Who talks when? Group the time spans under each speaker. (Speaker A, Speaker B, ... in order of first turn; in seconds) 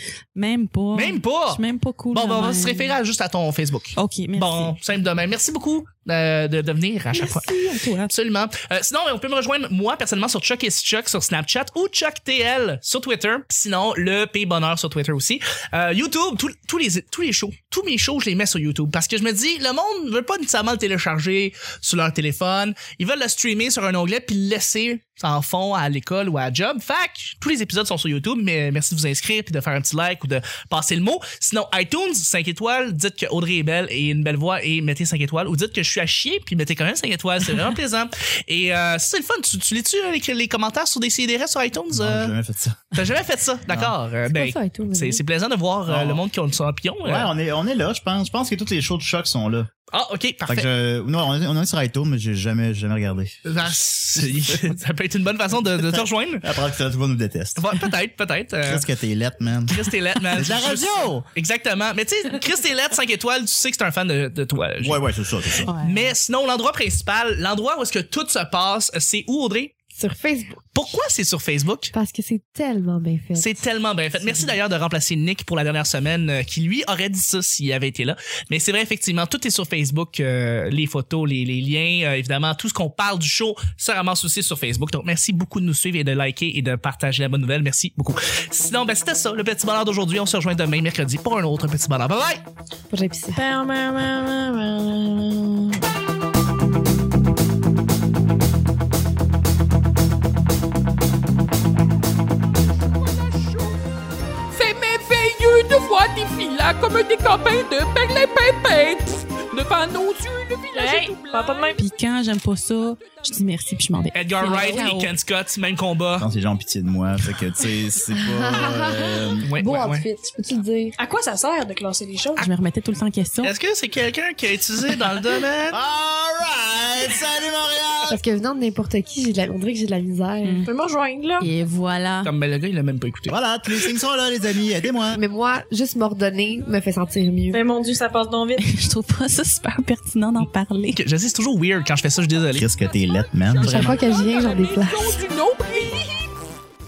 Speaker A: 0.3-3.0, 4.0-4.8, 7.1-8.1, 65.6-66.1, 111.8-115.1, 122.4-123.5, 131.4-132.3, 138.6-141.0
Speaker B: 0.9-42.3, 42.9-47.3, 49.9-50.7, 53.4-56.5, 57.5-58.9, 59.7-65.1, 65.6-69.7, 70.7-71.9, 73.4-92.4, 114.1-116.3, 119.4-120.0, 123.4-125.8, 132.2-133.4, 140.4-142.7
Speaker C: 41.9-43.0, 43.6-43.9, 45.9-46.2, 47.0-49.7, 50.5-54.7, 55.5-57.8, 58.6-61.2, 64.8-65.7, 116.2-119.5, 125.7-128.2, 133.3-135.2, 142.5-144.0
Speaker D: 44.2-45.2, 70.0-70.6, 71.9-73.5, 92.9-93.4, 114.5-114.9, 118.1-121.0, 128.1-130.6, 135.1-137.6, 143.6-145.1
Speaker E: 93.3-95.8, 110.7-111.8, 121.0-122.5, 130.6-131.5, 137.5-138.7
Speaker F: 103.1-103.8, 104.5-111.9, 143.5-146.3